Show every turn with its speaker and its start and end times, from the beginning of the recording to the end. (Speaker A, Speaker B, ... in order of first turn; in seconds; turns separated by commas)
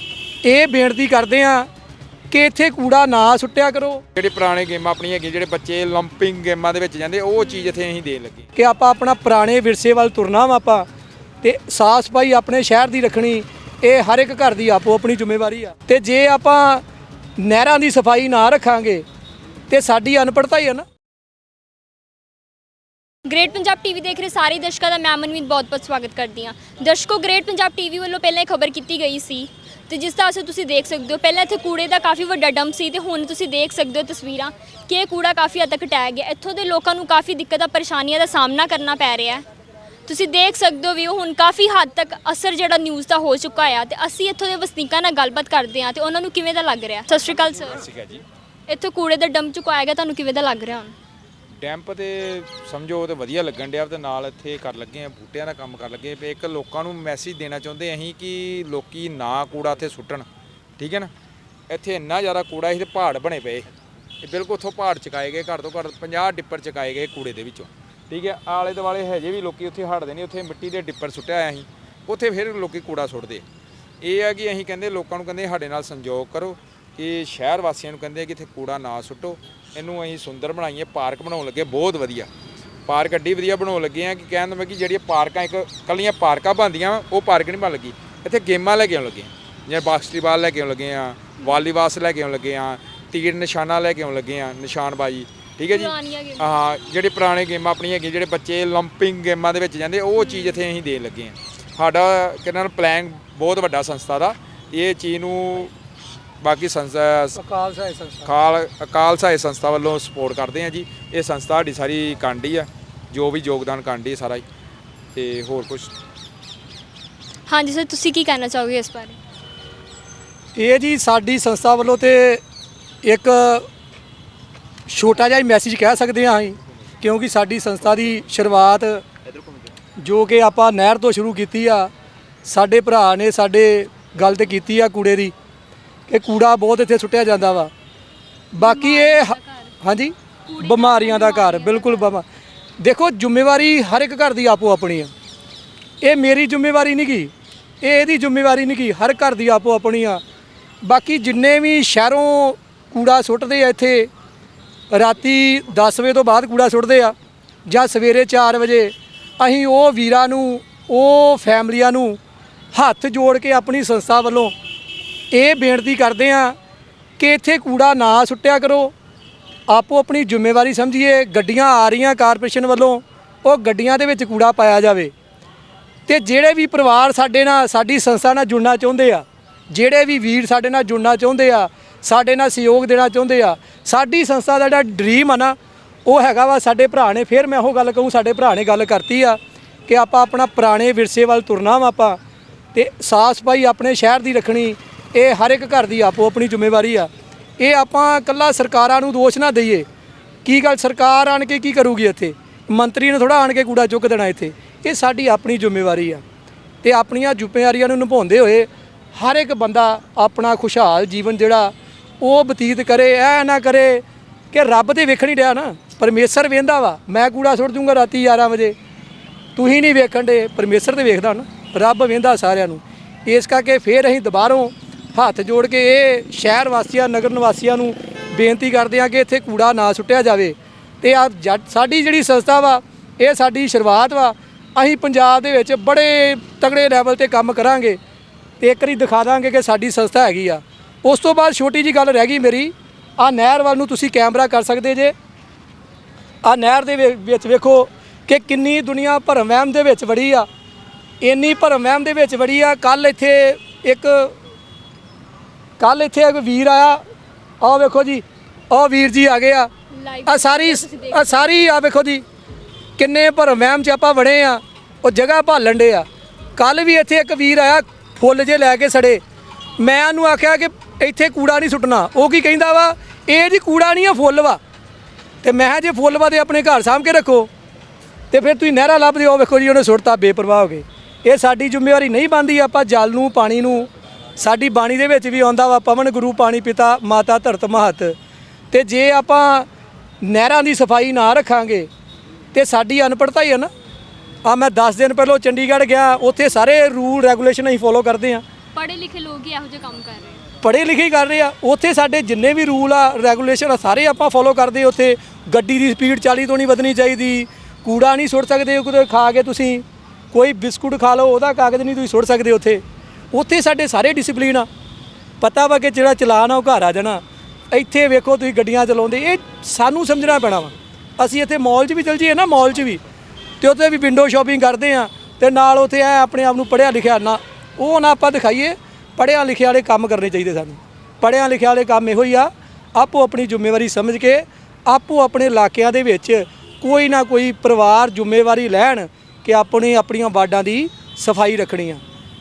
Speaker A: 0.4-1.7, Speaker A: 2.3-4.0, Speaker B: 4.2-8.5, Speaker C: 7.4-7.8, Speaker A: 8.6-10.9, Speaker A: 11.4-16.8, Speaker A: 17.4-19.1, Speaker A: 19.7-20.9, Speaker C: 23.3-39.5, Speaker C: 40.1-47.8, Speaker B: 47.7-48.2, Speaker C: 48.7-50.9, Speaker B: 51.6-60.3, Speaker B: 60.8-61.1, Speaker B: 61.7-63.7, Speaker B: 64.2-73.5, Speaker B: 74.0-82.3, Speaker B: 82.9-105.7, Speaker C: 95.7-96.5, Speaker C: 100.2-100.6, Speaker B: 106.4-107.4, Speaker A: 107.4-108.3, Speaker B: 108.2-114.5, Speaker B: 115.1-115.9, Speaker C: 117.5-119.2, Speaker A: 120.6-122.4, Speaker A: 123.0-123.7, Speaker A: 124.9-129.0, Speaker A: 130.0-131.9, Speaker A: 132.4-135.3, Speaker A: 136.1-137.7, Speaker A: 138.5-142.2, Speaker C: 138.6-139.8, Speaker C: 140.5-142.1, Speaker A: 142.8-145.1, Speaker A: 146.0-147.3, Speaker A: 147.8-150.2, Speaker A: 150.8-154.1, Speaker A: 154.9-157.2, Speaker A: 157.7-162.2, Speaker A: 162.7-164.5, Speaker A: 165.3-166.6, Speaker A: 167.2-168.9, Speaker A: 169.7-175.1, Speaker A: 176.1-192.2, Speaker A: 192.7-197.1, Speaker A: 197.6-199.9, Speaker A: 200.4-206.2, Speaker A: 206.8-218.8, Speaker A: 219.6-238.0, Speaker A: 238.6-245.1, Speaker A: 246.4-250.5, Speaker A: 251.2-254.3, Speaker A: 255.8-257.0, Speaker A: 257.6-259.7, Speaker C: 259.9-261.6, Speaker A: 260.3-262.2, Speaker A: 263.0-266.1, Speaker A: 266.6-269.2, Speaker A: 269.8-274.6, Speaker A: 275.4-277.5, Speaker A: 278.3-288.2, Speaker A: 288.7-289.7, Speaker A: 290.2-291.9, Speaker A: 292.5-293.7, Speaker A: 294.4-298.4, Speaker C: 298.7-300.4, Speaker A: 300.6-314.7, Speaker A: 315.4-323.0, Speaker A: 323.6-342.0